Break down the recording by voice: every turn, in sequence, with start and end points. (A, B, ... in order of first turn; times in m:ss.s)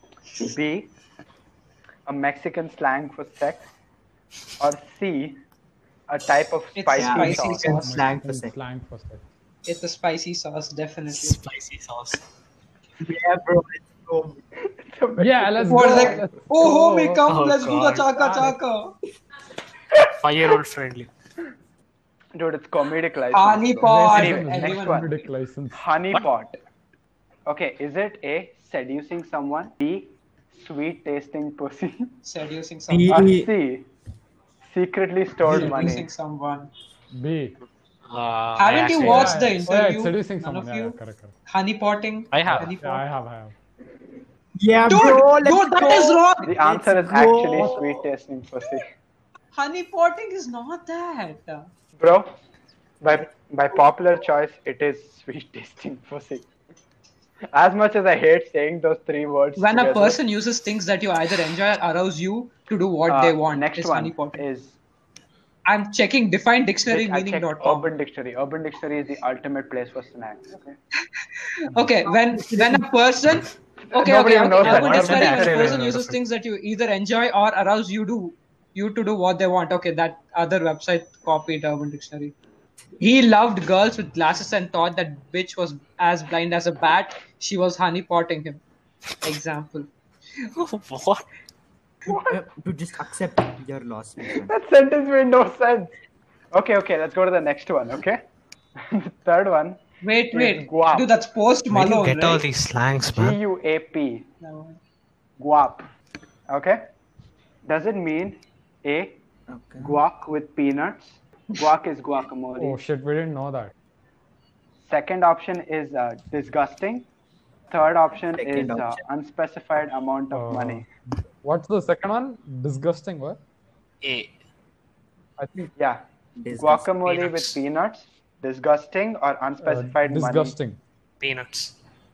0:00.4-0:00.9 A
0:02.1-0:03.7 A
0:04.6-0:05.4 A
0:06.1-0:07.8 A
0:06.8-0:08.0 B
0:07.0-0:08.6 C
0:07.7-0:09.3 D
0:09.6-0:11.4 B
0:11.1-0:12.2 E
0:13.0-0:14.4 C
0:14.6-0:16.3 A
0:15.2-0:17.3 D
0:15.7-0:19.0 B
0:17.3-0:18.1 E
0:18.2-0:18.6 D
0:20.0-0:21.1 E
0:22.4-0:25.2 A
0:23.3-0:25.1 B
0:23.8-0:25.8 D
0:25.7-0:26.6 A
0:27.5-0:32.1 A
0:32.2-0:33.3 B
0:32.9-0:33.5 C
0:33.1-0:33.9 A
0:34.6-0:36.1 A
0:35.5-0:35.8 D
0:35.5-0:36.7 B
0:37.1-0:37.6 D
0:38.1-0:39.4 E
0:38.6-0:43.0 B
0:39.0-0:41.3 D
0:42.3-0:42.7 E
0:42.4-0:43.6 D
0:44.6-0:47.9 C
0:44.9-0:46.6 B
0:46.4-0:48.9 A
0:49.5-0:51.7 B
0:52.0-0:52.4 A
0:53.0-0:56.5 A
0:57.5-1:00.2 A
0:59.6-1:04.5 B
1:03.1-1:04.8 A
1:05.7-1:07.9 B
1:06.9-1:10.8 A
1:11.2-1:22.4 B
1:12.0-1:12.9 C
1:13.9-1:15.8 A
1:14.6-1:16.2 E
1:23.0-1:28.6 B
1:29.2-1:29.9 B
1:30.5-1:31.3 E
1:32.1-1:32.4 A
1:32.1-1:34.5 C
1:34.5-1:35.9 A
1:36.5-1:38.2 A
1:38.8-1:39.8 A
1:40.0-1:42.4 B
1:40.3-1:41.1 A
1:41.7-1:43.4 E
1:43.2-1:44.3 A
1:44.4-1:44.8 B
1:45.4-1:45.9 A
1:46.5-1:46.8 A
1:47.6-1:49.2 A
1:49.5-1:50.0 C
1:49.8-1:52.8 A
1:52.6-1:53.7 D
1:54.8-1:57.1 A
1:57.7-2:00.8 A
1:58.3-1:59.0 C
2:00.3-2:03.4 D
2:04.0-2:04.3 E
2:05.4-2:05.7 D
2:05.8-2:10.6 A
2:06.4-2:06.9 C
2:07.0-2:07.6 E
2:09.6-2:10.8 D
2:11.2-2:11.8 E